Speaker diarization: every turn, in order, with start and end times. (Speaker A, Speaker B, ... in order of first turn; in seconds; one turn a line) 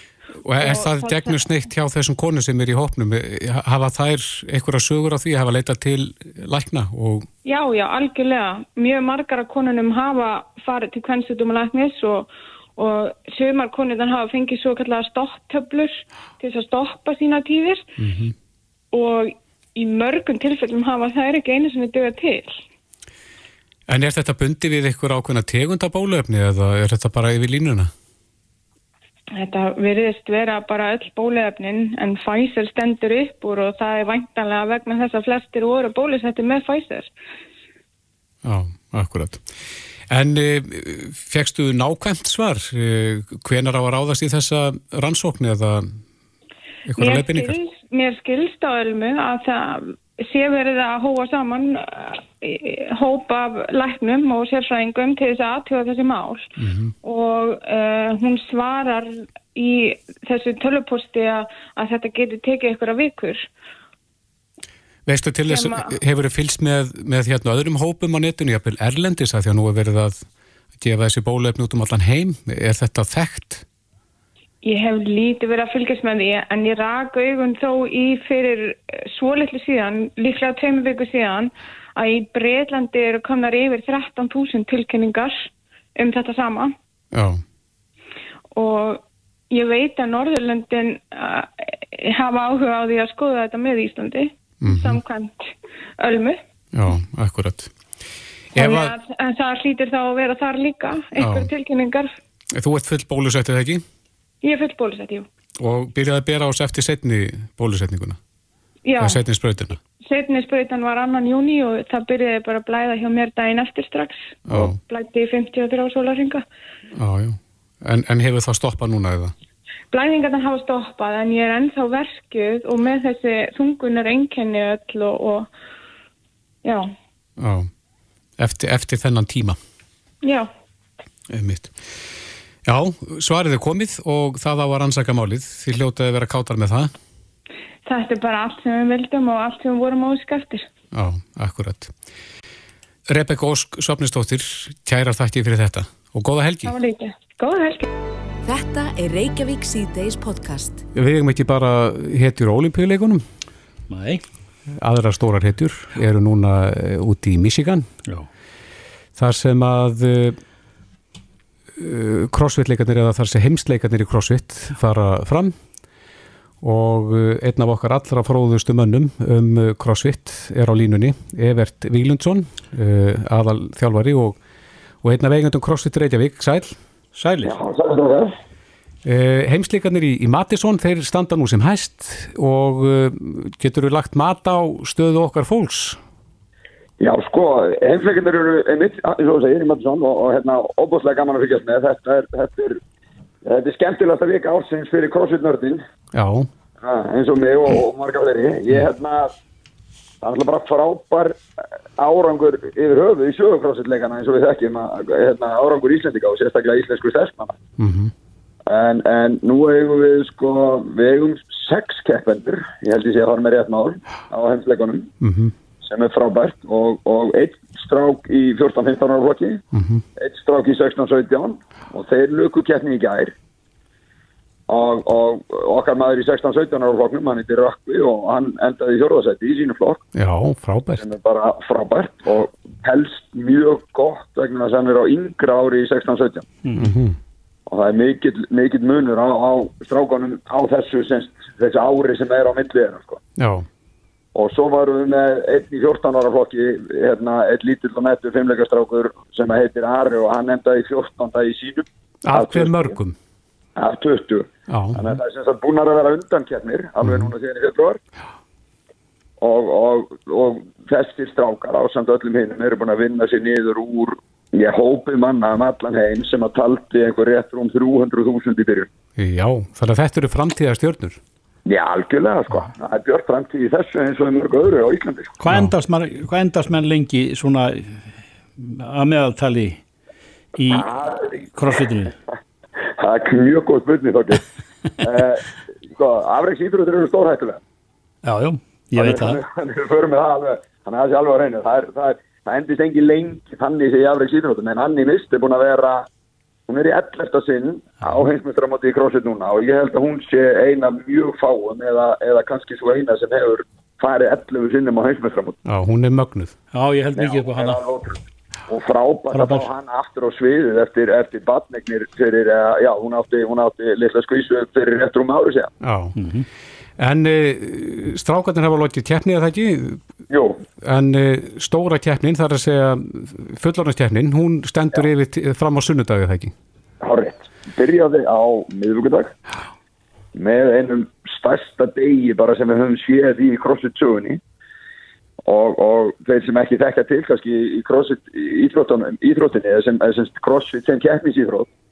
Speaker A: 0.4-7.3
Speaker B: 0.6-1.4
Speaker B: 7.5-17.9
Speaker A: 18.0-18.3
Speaker B: 18.9-22.6
Speaker A: 23.9-27.9
Speaker B: 29.3-37.1
Speaker A: 38.4-39.5
Speaker A: 40.1-46.0
Speaker A: 46.9-47.5
Speaker B: 47.0-56.5
Speaker A: 56.6-56.9
Speaker B: 57.0-63.5
Speaker A: 65.1-70.3
Speaker B: 65.5-66.0
Speaker A: 70.8-73.7
Speaker B: 74.6-86.8
Speaker A: 87.1-87.4
Speaker B: 88.5-96.4
Speaker A: 94.6-95.0
Speaker A: 96.7-97.7
Speaker A: 98.5-98.9
Speaker B: 98.5-102.1
Speaker A: 101.2-101.5
Speaker A: 102.5-103.8
Speaker B: 104.4-105.3
Speaker A: 105.6-108.2
Speaker B: 108.9-109.2
Speaker A: 109.0-109.8
Speaker B: 110.0-116.4
Speaker A: 114.5-114.8
Speaker A: 117.0-119.3
Speaker B: 119.9-125.5
Speaker B: 126.6-126.9
Speaker A: 127.4-127.7
Speaker A: 128.4-129.6
Speaker B: 130.2-130.5
Speaker A: 131.3-132.0
Speaker A: 132.7-136.9
Speaker B: 137.9-140.7
Speaker A: 140.9-141.9
Speaker A: 143.1-146.7
Speaker B: 146.7-147.9
Speaker C: 148.4-150.8
Speaker A: 150.9-153.2
Speaker D: 153.9-154.2
Speaker A: 154.8-157.9
Speaker A: 159.2-160.4
Speaker A: 161.8-165.6
Speaker A: 166.6-174.4
Speaker A: 175.0-176.8
Speaker D: 177.2-177.6
Speaker E: 177.4-178.3
Speaker A: 179.1-186.0
Speaker E: 187.0-192.8
Speaker E: 193.4-195.8
Speaker A: 196.1-196.5
Speaker E: 196.8-199.3
Speaker E: 200.2-201.4
Speaker E: 202.0-207.6
Speaker A: 207.8-208.1
Speaker E: 208.7-215.1
Speaker A: 215.2-215.5
Speaker E: 215.8-219.6
Speaker A: 219.7-220.0
Speaker E: 220.2-223.3
Speaker E: 224.7-230.1
Speaker A: 230.2-231.0
Speaker E: 231.0-236.5
Speaker D: 236.6-236.9
Speaker A: 236.8-237.2
Speaker E: 237.7-243.2
Speaker A: 243.4-243.7
Speaker E: 244.3-253.0
Speaker A: 252.2-253.2
Speaker E: 253.8-258.0
Speaker A: 254.7-255.2
Speaker A: 257.0-257.3
Speaker E: 259.4-268.9
Speaker A: 269.2-271.2
Speaker E: 271.7-275.4
Speaker D: 275.4-279.8
Speaker D: 280.6-280.9
Speaker E: 280.7-281.5
Speaker D: 281.5-282.1
Speaker E: 282.9-284.5
Speaker E: 285.0-287.6
Speaker D: 288.2-289.4
Speaker E: 289.0-296.1
Speaker E: 296.7-305.6
Speaker A: 305.7-306.6
Speaker D: 306.7-307.8
Speaker E: 307.1-315.7
Speaker D: 309.3-309.7
Speaker A: 315.8-316.1
Speaker D: 316.2-316.5
Speaker A: 317.0-320.0
Speaker E: 320.3-320.6
Speaker A: 320.8-326.5
Speaker E: 327.0-329.4
Speaker E: 330.4-334.4
Speaker E: 335.4-341.7